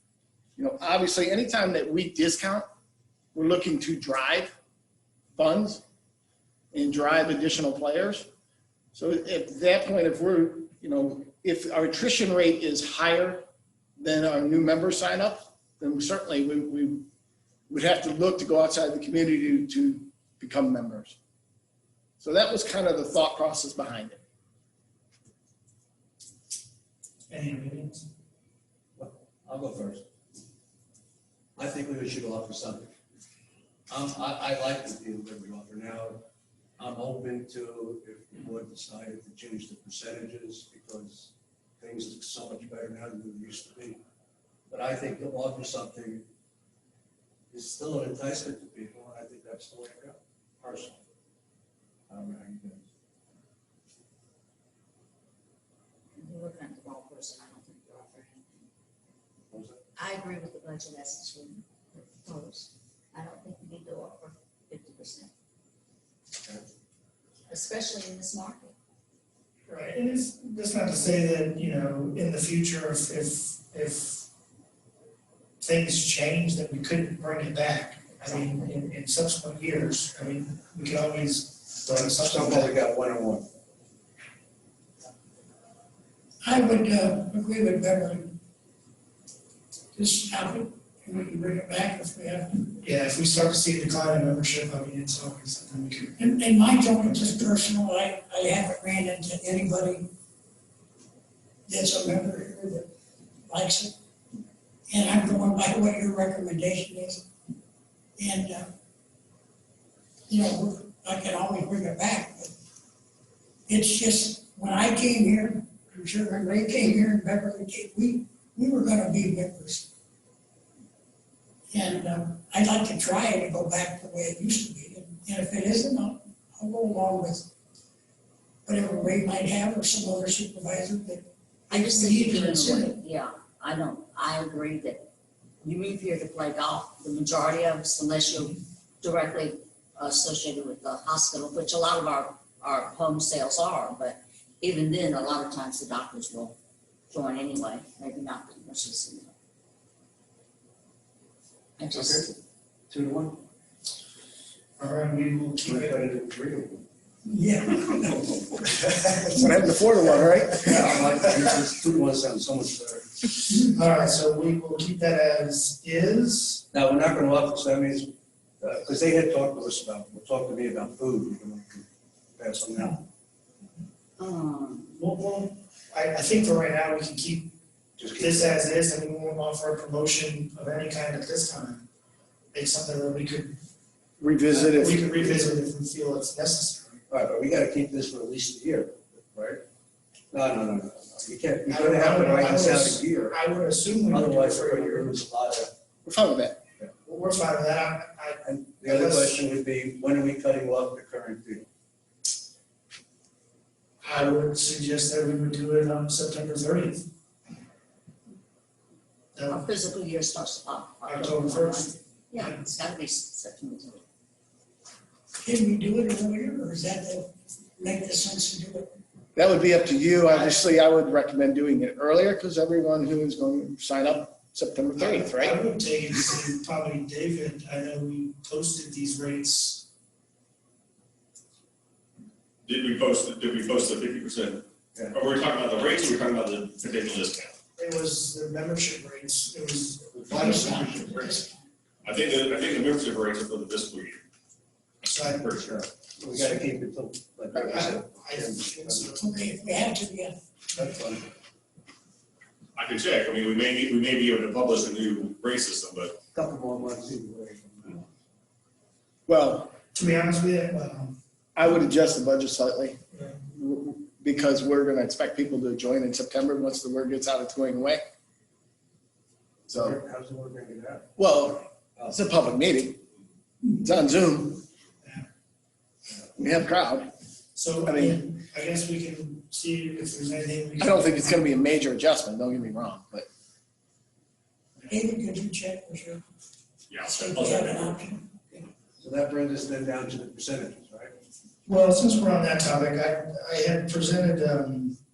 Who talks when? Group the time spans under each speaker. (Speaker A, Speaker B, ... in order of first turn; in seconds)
Speaker A: 0.6-2.6, 3.3-4.5, 5.3-5.8, 6.7-8.2, 8.9-13.4, 14.0-17.0, 17.7-21.2, 22.2-24.2, 159.3-161.0, 184.2-185.3, 196.0-196.6, 219.3-225.6, 259.3-259.8, 261.6-263.0, 263.5-268.0, 269.7-270.0, 271.2-273.0, 273.7-274.6, 276.4-277.1, 277.9-278.2, 280.8-283.3
Speaker B: 27.3-28.0, 69.7-74.3, 75.6-82.8, 92.8-96.2, 131.7-133.0, 154.8-156.1, 163.5-166.6, 175.0-177.5, 178.2-181.8, 182.5-183.6, 184.5-187.0, 191.7-195.2, 197.0-199.4, 204.0-207.0, 209.3-209.6, 211.1-212.6, 224.9-229.9, 237.8-241.1, 245.0-245.8, 247.6-249.3, 259.9-261.2, 263.1-263.4, 277.5-281.3, 291.6-295.0
Speaker C: 29.0-30.0, 31.6-32.9, 33.9-36.2, 36.8-44.0, 44.7-46.2, 47.5-51.0, 52.1-52.8, 59.5-59.8, 82.2-83.5, 151.9-152.3, 152.9-153.4, 155.7-156.8, 160.6-163.1, 166.7-168.1, 168.6-171.8, 172.4-173.0, 178.0-178.5, 187.1-189.6, 190.3-193.3, 194.1-195.7, 198.4-201.7, 246.2-249.0, 250.7-251.2, 256.3-258.1, 269.9-271.0, 289.0-291.1
Speaker D: 56.1-58.7, 60.0-65.3, 67.5-68.7, 131.7-135.1, 135.6-146.6, 147.1-149.3, 151.8-152.3, 174.2-175.0, 209.5-214.0
Speaker E: 86.4-88.3, 89.9-92.7, 96.2-100.1, 101.7-102.9, 103.5-103.9, 104.9-107.2, 108.2-108.7, 110.3-112.5, 113.7-119.9, 121.7-127.5, 128.7-131.2, 157.2-158.4, 215.4-218.9, 240.3-241.6, 249.1-250.4, 284.9-286.2, 287.1-288.3
Speaker F: 232.7-237.5, 242.0-244.2, 245.3-245.8, 252.8-256.1, 286.9-288.0